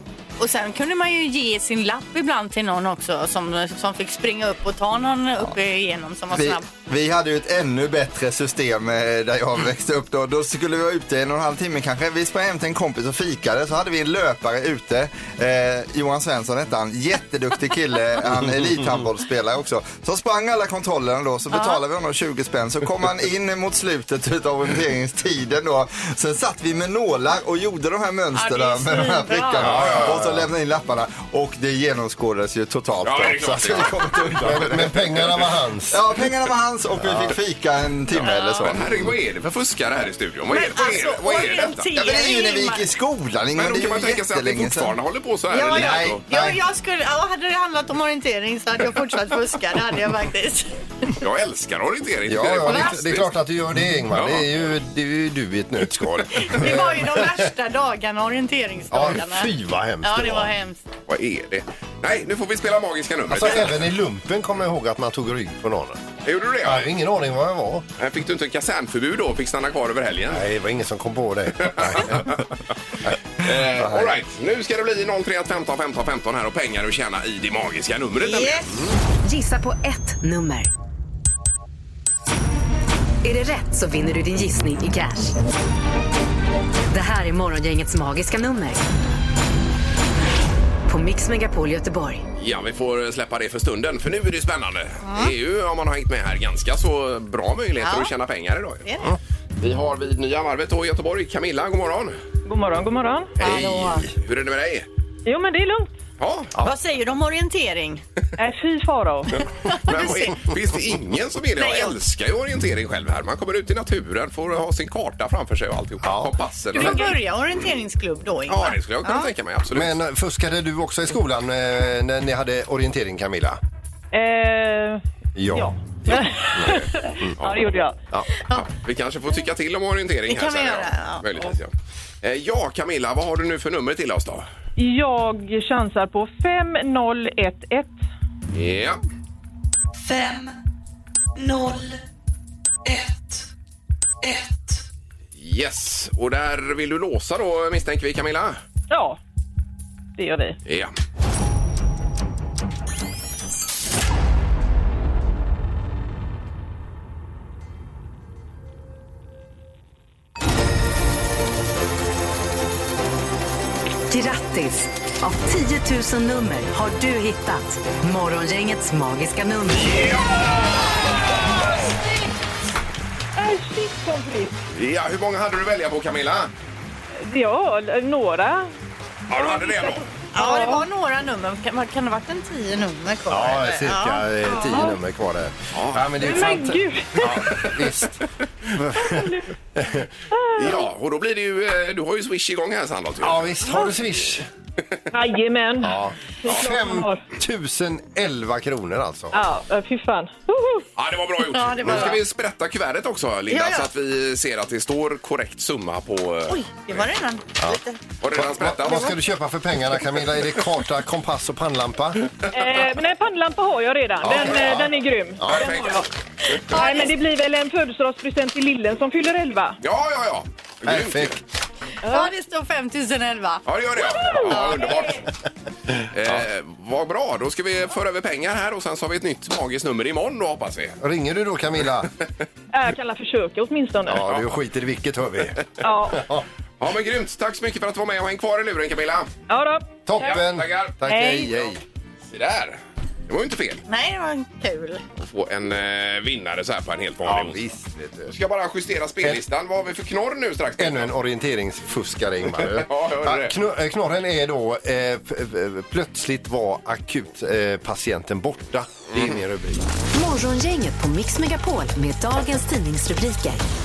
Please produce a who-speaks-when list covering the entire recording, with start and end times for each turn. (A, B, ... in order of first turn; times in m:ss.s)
0:00.4-0:06.7 A
0:06.3-0:35.1 B
0:21.5-0:21.8 A
0:28.4-0:29.9 A
0:29.6-0:30.5 C
0:29.7-0:30.2 D
0:33.0-0:35.3 D
0:34.4-0:36.0 C
0:35.9-0:39.1 B
0:37.0-0:37.4 C
0:38.2-0:38.7 A
0:38.6-0:41.9 D
0:40.5-0:42.8 A
0:42.0-0:45.0 B
0:43.6-0:46.2 D
0:45.5-0:51.1 A
0:45.6-0:46.6 B
0:51.2-0:53.3 D
0:52.3-0:57.5 C
0:52.6-0:52.9 A
0:54.1-0:54.5 D
0:56.4-1:00.8 A
0:58.9-1:00.5 C
1:01.1-1:03.8 D
1:03.3-1:06.0 C
1:06.2-1:06.9 D
1:06.6-1:07.9 C
1:08.0-1:10.4 D
1:10.3-1:12.3 C
1:11.6-1:12.5 D
1:13.4-1:18.7 D
1:13.8-1:14.1 B
1:18.2-1:18.7 A
1:19.2-1:20.7 E
1:23.2-1:25.4 E
1:26.9-1:28.8 E
1:30.9-1:32.2 E
1:32.4-1:38.8 D
1:35.0-1:35.3 A
1:37.8-1:38.1 A
1:38.8-1:39.1 A
1:39.6-1:42.1 D
1:42.4-1:43.3 F
1:43.4-1:44.9 D
1:43.4-1:44.0 A
1:43.4-1:44.0 C
1:45.2-1:45.9 F
1:46.2-1:46.5 D
1:46.6-1:48.0 A
1:48.4-1:49.3 F
1:49.6-1:50.4 A
1:49.9-1:57.2 D
1:51.6-1:52.0 A
1:56.0-1:56.3 C
1:56.7-1:59.3 A
1:58.5-2:00.0 D
1:59.7-2:03.6 C
2:04.1-2:08.0 F
2:05.4-2:07.4 C
2:07.4-2:07.7 D
2:08.5-2:11.7 D
2:10.3-2:11.2 A
2:12.2-2:14.5 D
2:14.8-2:18.0 F
2:18.5-2:19.0 D
2:20.0-2:20.5 G
2:21.4-2:22.0 G
2:22.9-2:23.5 G
2:24.2-2:24.8 G
2:25.4-2:28.6 D
2:28.9-2:29.2 F
2:30.2-2:30.6 F
2:30.7-2:30.9 D
2:44.1-2:50.0 E
2:49.9-2:50.6 D
2:53.4-2:54.6 F
2:54.7-2:56.5 D
2:57.2-2:58.7 F
2:59.3-3:00.0 D
2:59.3-3:00.9 F
3:00.4-3:04.3 A
3:03.3-3:08.2 C
3:04.5-3:05.0 F
3:05.7-3:06.1 D
3:06.2-3:07.3 F
3:07.3-3:08.0 D
3:08.8-3:10.1 C
3:09.0-3:09.5 F
3:10.3-3:10.8 F
3:10.6-3:13.5 D
3:13.2-3:14.5 C
3:15.1-3:17.2 F
3:15.8-3:19.4 C
3:19.3-3:20.9 F
3:21.0-3:27.0 D
3:21.5-3:22.2 A
3:23.5-3:23.9 A
3:26.5-3:28.0 A
3:28.2-3:29.2 D
3:28.3-3:32.2 C
3:32.5-3:36.1 F
3:34.2-3:35.7 C
3:35.4-3:36.0 D
3:36.7-3:37.1 A
3:36.7-3:39.8 F
3:39.8-3:41.4 D
3:40.9-3:41.4 C
3:42.0-3:42.3 F
3:42.1-3:43.6 A
3:43.7-3:45.2 D
3:44.1-3:44.9 F
3:44.5-3:44.8 A
3:46.0-3:51.0 D
3:51.0-3:52.1 C
3:52.7-3:54.2 F
3:54.1-3:56.4 C
3:55.8-3:56.2 F
3:56.8-3:59.3 D
3:59.5-4:00.4 F
4:00.1-4:01.8 C
4:00.2-4:01.0 D
4:01.0-4:01.5 F
4:02.3-4:03.8 D
4:03.9-4:05.0 A
4:05.2-4:07.6 D
4:07.2-4:08.3 C
4:08.3-4:11.1 D
4:10.8-4:19.9 C
4:12.6-4:13.6 D
4:19.1-4:19.4 D
4:20.1-4:23.6 E